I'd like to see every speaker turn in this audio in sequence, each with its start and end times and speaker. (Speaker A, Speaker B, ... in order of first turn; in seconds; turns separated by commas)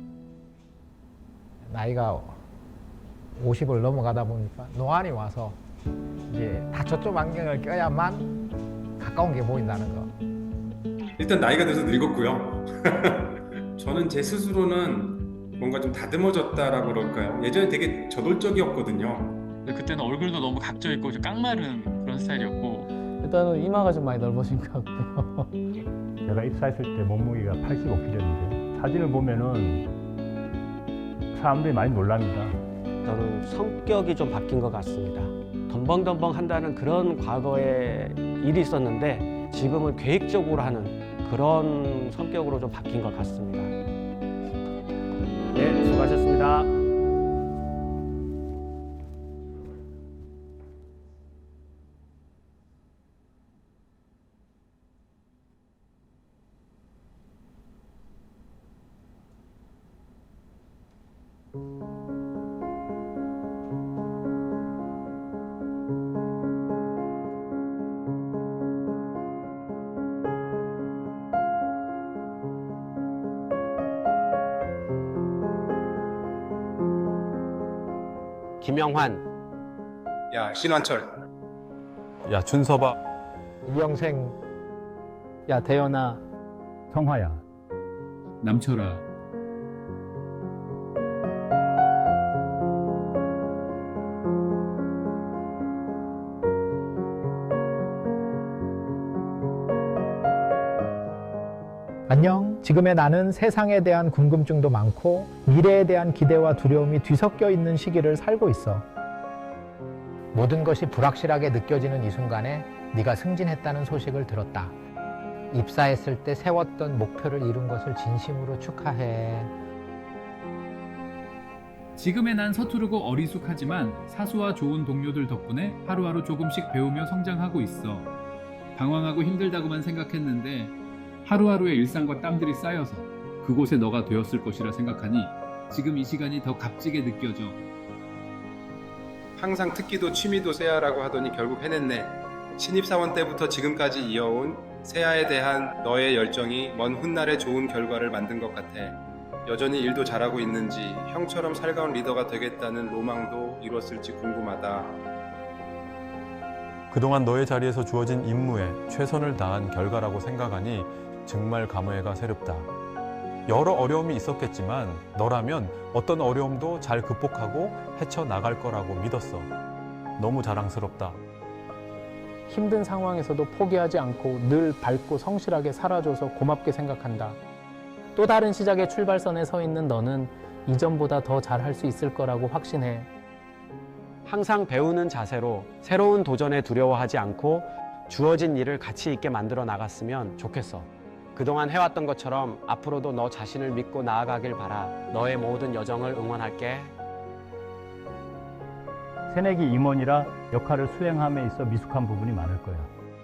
Speaker A: 1.6-2.4, Speaker A: 3.4-5.6, Speaker A: 6.3-8.3, Speaker A: 9.0-10.1, Speaker B: 11.2-19.4, Speaker C: 19.6-22.9, Speaker D: 23.2-25.6, Speaker E: 26.2-29.9, Speaker E: 31.3-32.6, Speaker F: 33.0-43.8, Speaker F: 45.5-46.8, Speaker F: 78.6-79.2, Speaker B: 80.3-81.2, Speaker G: 82.2-83.0, Speaker A: 83.7-84.4, Speaker D: 85.5-86.2, Speaker E: 86.9-87.4, Speaker H: 88.4-89.0, Speaker A: 102.1-108.9, Speaker A: 110.3-114.8, Speaker A: 115.5-119.5, Speaker H: 122.0-128.1, Speaker H: 128.8-137.6, Speaker B: 139.4-155.0, Speaker G: 156.9-162.7, Speaker G: 163.5-169.5, Speaker G: 170.2-171.2, Speaker D: 172.5-177.4, Speaker D: 178.2-183.1, Speaker F: 184.2-196.9, Speaker E: 199.3-202.9